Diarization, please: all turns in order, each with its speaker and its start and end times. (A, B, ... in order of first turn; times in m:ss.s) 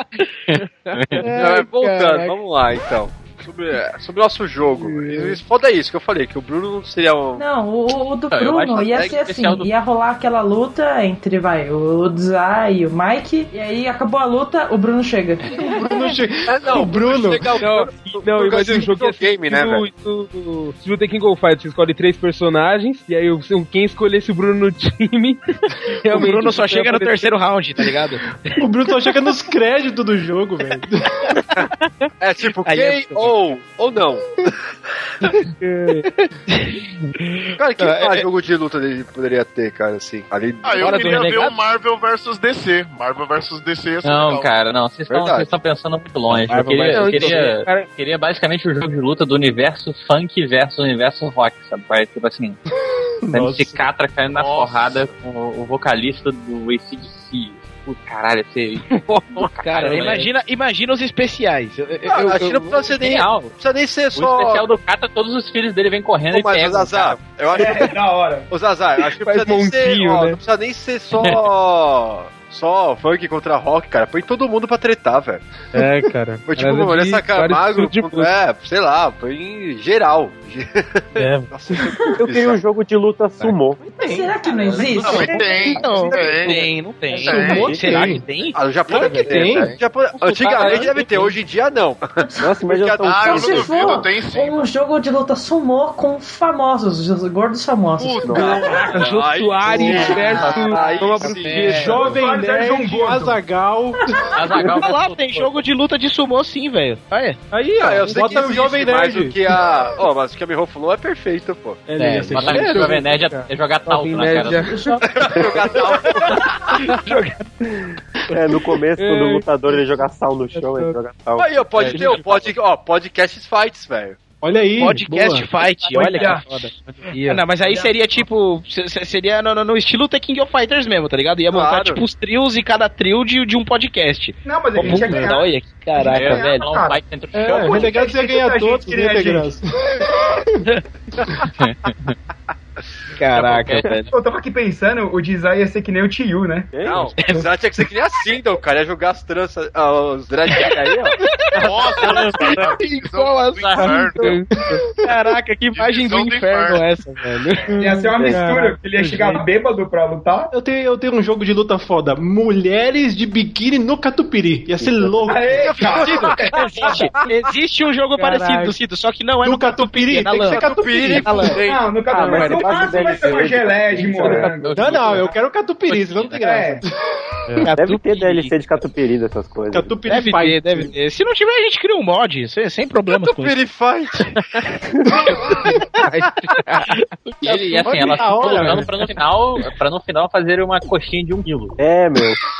0:00.5-0:01.2 A
0:01.2-0:02.3 B
0:01.4-0:07.4 C
0:04.7-0:05.4 D
0:07.4-0:16.1 E
0:08.3-0:09.7 A
0:15.6-0:17.5 F
0:16.5-0:19.9 C
0:17.6-0:27.3 D
0:26.1-0:28.6 B
0:28.6-0:31.3 F
0:32.2-0:34.6 C
0:32.7-0:33.3 B
0:35.6-0:36.0 D
0:36.1-0:38.3 B
0:37.6-0:41.0 C
0:40.6-0:44.5 G
0:40.8-0:41.6 B
0:44.0-0:52.6 A
0:45.1-0:45.5 C
0:46.3-0:47.5 B
0:46.9-0:47.9 D
0:53.2-0:53.8 F
0:53.3-1:00.3 A
0:54.3-0:55.1 G
0:59.1-1:02.8 B
1:02.1-1:04.6 C
1:03.0-1:03.5 A
1:04.2-1:07.2 A
1:06.3-1:07.9 C
1:07.5-1:08.5 H
1:08.5-1:15.4 C
1:09.3-1:10.3 H
1:11.2-1:11.4 A
1:15.7-1:18.3 D
1:16.5-1:22.6 C
1:21.2-1:21.5 D
1:22.2-1:23.8 I
1:23.8-1:24.3 F
1:24.0-1:25.9 E
1:24.6-1:25.3 A
1:25.0-1:26.7 G
1:25.0-1:29.5 B
1:25.9-1:26.5 C
1:27.2-1:27.8 G
1:27.2-1:28.2 F
1:28.5-1:34.0 C
1:28.9-1:29.8 F
1:30.2-1:31.1 A
1:32.2-1:32.5 E
1:32.4-1:33.3 I
1:33.0-1:34.7 G
1:33.1-1:38.3 E
1:38.0-1:39.0 G
1:38.3-1:38.6 I
1:38.3-1:42.2 D
1:38.4-1:41.8 C
1:40.3-1:41.3 A
1:41.7-1:44.4 F
1:42.0-1:43.4 H
1:44.3-1:45.6 A
1:44.6-1:47.4 B
1:47.5-1:49.5 F
1:47.8-1:51.8 C
1:51.9-1:53.0 F
1:52.0-1:52.8 B
1:52.3-1:55.0 D
1:52.3-1:54.7 A
1:54.6-1:55.0 E
1:55.1-1:56.6 C
1:55.5-1:56.0 D
1:58.3-2:01.6 I
1:59.0-1:59.8 D
2:00.6-2:00.9 D
2:01.4-2:04.2 C
2:01.8-2:02.1 A
2:01.9-2:02.2 B
2:04.4-2:05.5 F
2:04.8-2:06.7 B
2:06.0-2:06.4 H
2:07.1-2:08.2 D
2:07.3-2:16.7 B
2:11.5-2:12.0 C
2:14.4-2:19.5 H
2:16.1-2:18.1 A
2:17.4-2:20.6 F
2:21.6-2:22.1 A
2:23.2-2:24.1 B
2:23.3-2:24.0 A
2:24.1-2:26.7 H
2:26.7-2:27.2 I
2:26.8-2:31.2 C
2:27.2-2:27.5 B
2:31.2-2:34.4 B
2:31.6-2:34.4 G
2:32.0-2:32.6 A
2:33.6-2:34.0 A
2:33.8-2:34.8 D
2:34.5-2:35.1 F
2:35.0-2:37.7 B
2:35.7-2:36.9 G
2:37.7-2:38.8 F
2:37.8-2:40.5 H
2:39.0-2:39.4 D
2:40.5-2:45.6 F
2:44.8-2:45.6 I
2:45.3-2:47.1 H
2:45.6-2:47.0 C
2:46.0-2:51.6 B
2:48.2-2:48.7 F
2:49.4-2:51.6 F
2:50.5-2:51.9 C
2:51.6-2:55.3 H
2:52.1-2:54.5 I
2:52.2-2:53.0 B
2:54.0-2:54.7 D
2:54.6-2:55.2 A
2:54.7-2:56.9 F
2:55.9-2:56.4 A
2:56.4-2:56.8 H
2:57.6-2:58.5 B
2:57.8-3:00.0 I
2:59.7-3:00.9 F
3:00.1-3:03.6 B
3:03.3-3:04.4 C
3:05.5-3:07.9 B
3:06.0-3:06.8 D
3:07.4-3:11.8 A
3:07.8-3:09.0 F
3:11.8-3:12.4 I